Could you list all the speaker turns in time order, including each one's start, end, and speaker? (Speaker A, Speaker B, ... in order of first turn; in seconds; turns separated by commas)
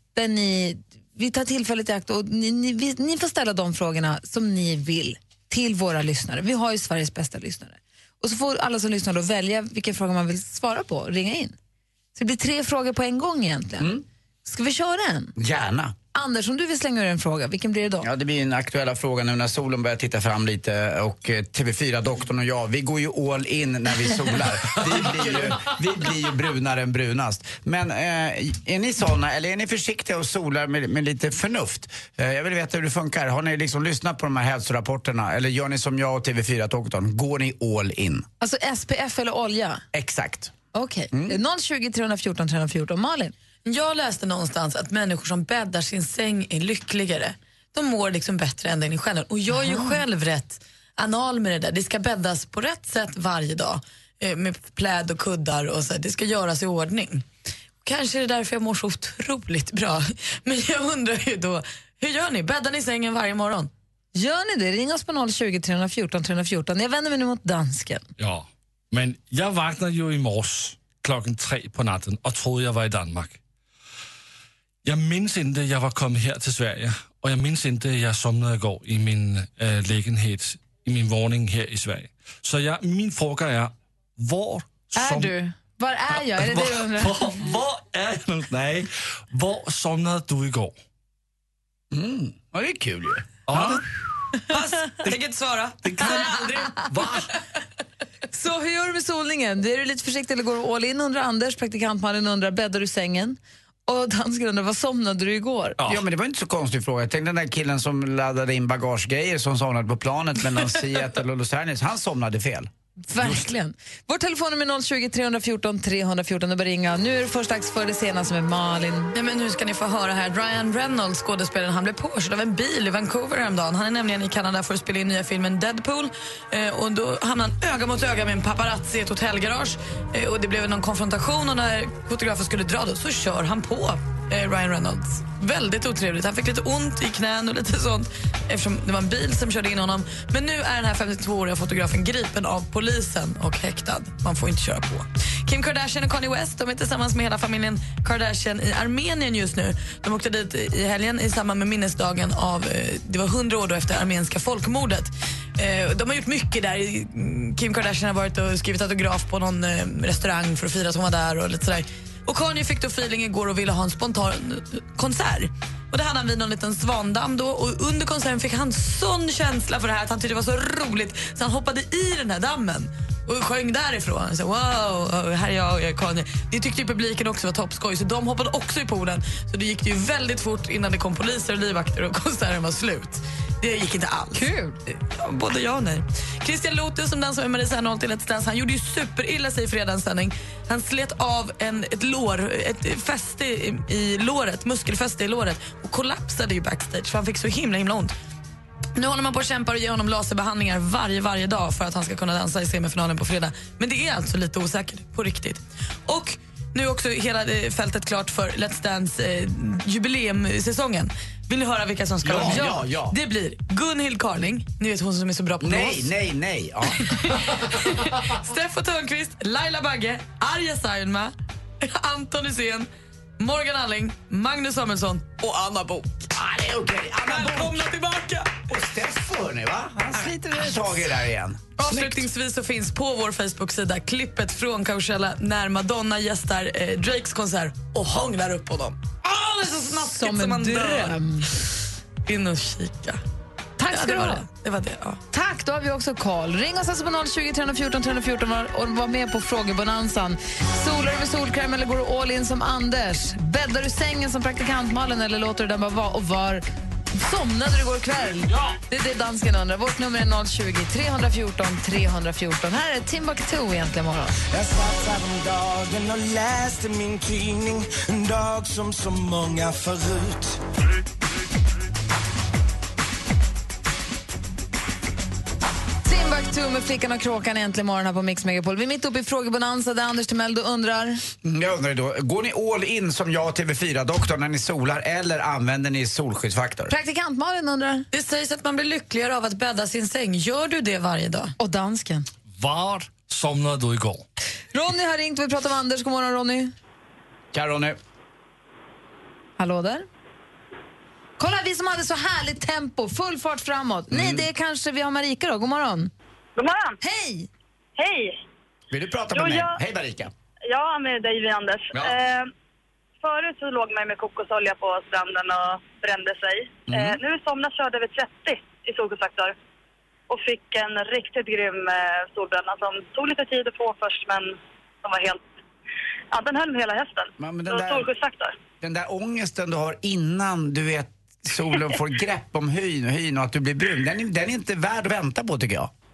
Speaker A: 0.1-11.6, Speaker A: 12.2-13.9, Speaker A: 14.4-15.3, Speaker B: 15.4-15.9, Speaker A: 16.1-18.1, Speaker B: 18.0-38.2, Speaker A: 38.4-39.8, Speaker B: 39.9-40.5, Speaker A: 40.7-43.3, Speaker B: 41.1-41.4, Speaker C: 43.7-57.2, Speaker A: 49.5-50.0, Speaker C: 57.8-63.7, Speaker A: 64.2-68.1, Speaker D: 68.2-73.4, Speaker D: 74.8-85.3, Speaker A: 85.0-87.5, Speaker D: 86.2-90.7, Speaker B: 91.9-93.8, Speaker D: 93.5-93.8, Speaker C: 94.5-97.2, Speaker D: 95.8-97.3, Speaker A: 96.0-96.3, Speaker A: 98.3-105.8, Speaker B: 105.8-112.7, Speaker A: 113.1-119.1, Speaker C: 119.1-198.1, Speaker A: 184.3-184.8, Speaker C: 199.0-216.1, Speaker B: 212.2-213.1, Speaker B: 215.6-217.0, Speaker C: 217.0-222.9, Speaker C: 223.4-226.3, Speaker B: 226.3-227.9, Speaker C: 227.2-228.7, Speaker B: 228.7-232.3, Speaker C: 231.8-241.7, Speaker A: 239.9-241.5, Speaker C: 242.3-243.2, Speaker A: 243.8-244.5, Speaker C: 243.9-245.2, Speaker A: 245.3-264.4, Speaker E: 264.5-270.6, Speaker A: 276.1-281.2, Speaker B: 281.4-286.9, Speaker A: 286.9-288.1, Speaker C: 288.1-291.5, Speaker A: 291.6-292.3, Speaker D: 292.6-294.2, Speaker A: 294.7-296.7, Speaker B: 297.5-298.0, Speaker A: 299.6-300.1, Speaker A: 301.4-306.1, Speaker B: 304.1-304.5, Speaker F: 306.6-307.0, Speaker A: 307.0-307.5, Speaker F: 308.0-308.4, Speaker B: 308.9-310.3, Speaker F: 309.3-309.8, Speaker F: 310.7-312.5, Speaker F: 313.2-319.6, Speaker B: 316.9-317.2, Speaker F: 320.3-325.4, Speaker F: 326.3-328.5, Speaker B: 327.4-328.1, Speaker B: 328.8-335.9